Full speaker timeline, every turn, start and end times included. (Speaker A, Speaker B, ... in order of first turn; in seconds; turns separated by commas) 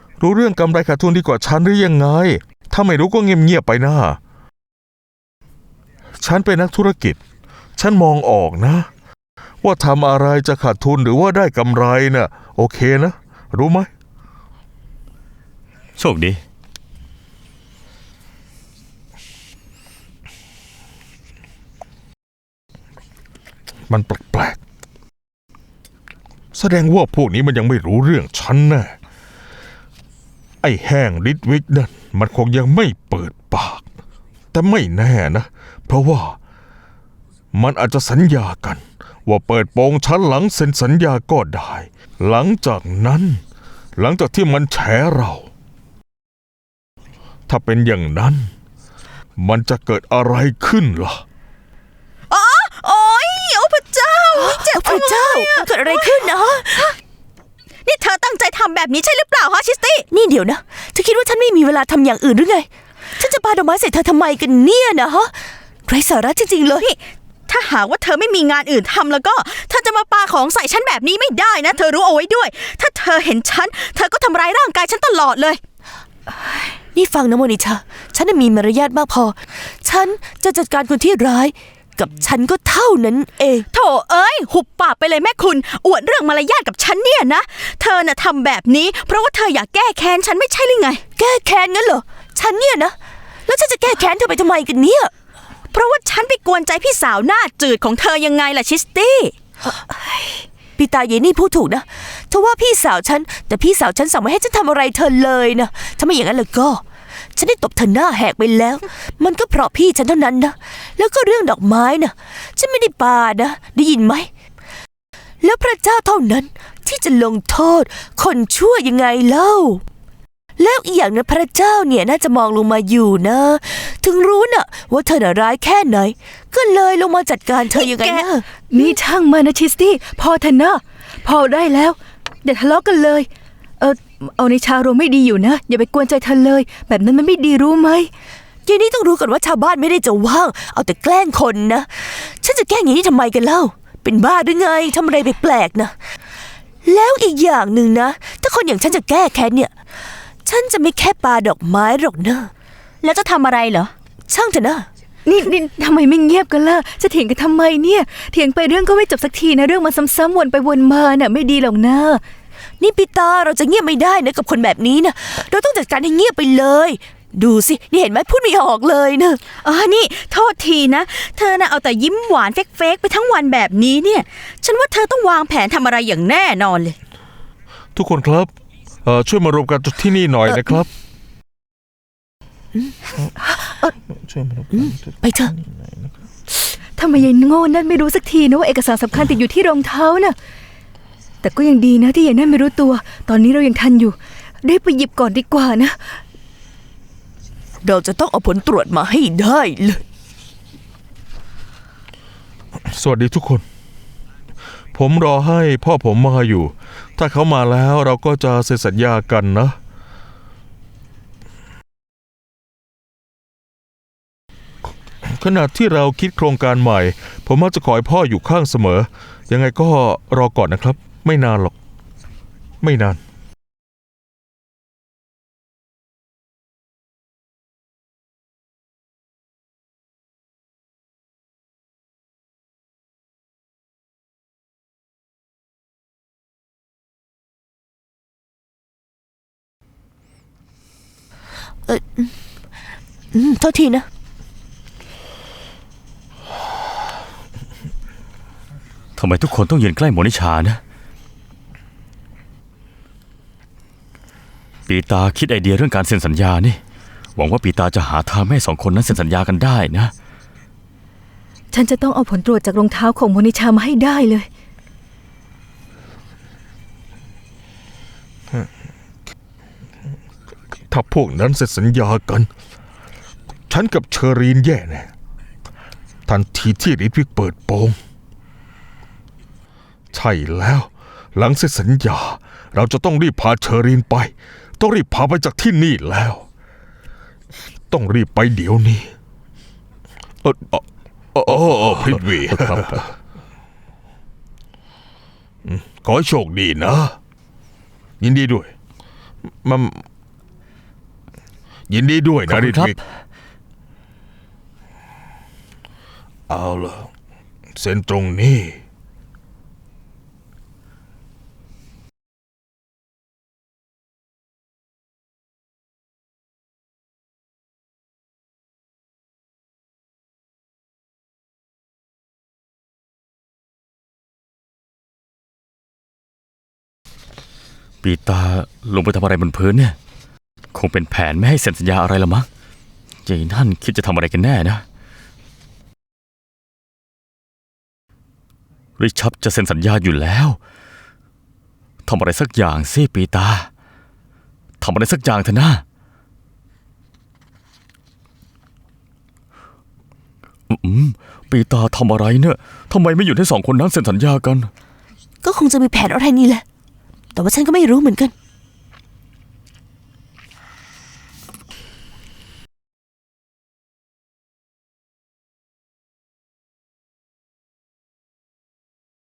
Speaker A: 0.2-4.2, Speaker A: 6.2-7.2, Speaker A: 7.8-8.9, Speaker A: 9.6-13.9, Speaker B: 16.0-16.4, Speaker A: 23.9-24.6, Speaker A: 26.5-28.9, Speaker A: 30.6-33.8, Speaker A: 34.5-36.4, Speaker A: 37.5-43.4, Speaker A: 44.0-45.5, Speaker A: 47.5-48.5, Speaker A: 49.4-51.2, Speaker C: 52.3-56.2, Speaker D: 54.3-56.9, Speaker C: 57.8-60.0, Speaker D: 60.1-65.3, Speaker D: 65.9-67.0, Speaker C: 67.5-75.6, Speaker D: 76.9-83.7, Speaker C: 83.7-91.0, Speaker D: 91.2-95.1, Speaker C: 95.7-99.3, Speaker E: 99.9-100.3, Speaker D: 100.8-106.8, Speaker D: 107.3-114.3, Speaker D: 115.4-119.8, Speaker D: 120.6-128.8, Speaker E: 128.0-133.3, Speaker E: 133.8-138.1, Speaker D: 138.7-146.0, Speaker D: 146.8-149.7, Speaker D: 150.4-152.5, Speaker C: 153.0-153.9, Speaker D: 154.3-154.9, Speaker E: 155.2-162.2, Speaker D: 162.8-169.4, Speaker C: 169.6-176.9, Speaker A: 177.9-178.5, Speaker A: 179.0-180.9, Speaker A: 184.3-184.9, Speaker D: 184.7-185.5, Speaker E: 186.9-190.3, Speaker E: 191.4-196.0, Speaker D: 197.8-200.0, Speaker A: 202.9-203.6, Speaker A: 204.9-209.8, Speaker A: 215.2-221.7, Speaker A: 222.8-223.2, Speaker D: 241.9-242.3, Speaker D: 243.3-244.1, Speaker B: 249.2-250.8, Speaker B: 254.9-256.8, Speaker B: 257.4-260.1, Speaker E: 261.7-264.5, Speaker A: 270.9-272.5, Speaker A: 273.7-275.1, Speaker A: 276.3-278.0, Speaker A: 280.1-286.4, Speaker A: 287.9-289.1, Speaker A: 290.4-293.1, Speaker A: 295.6-297.2, Speaker A: 298.2-298.7, Speaker A: 299.6-300.0, Speaker A: 301.9-303.0, Speaker B: 302.5-303.0, Speaker A: 306.5-307.1, Speaker A: 307.7-308.8, Speaker B: 328.0-329.9, Speaker B: 330.7-332.5, Speaker B: 333.2-334.8, Speaker B: 339.0-340.6, Speaker B: 342.0-343.7, Speaker B: 344.8-345.8, Speaker B: 350.7-354.7, Speaker D: 355.4-356.6, Speaker D: 357.3-358.3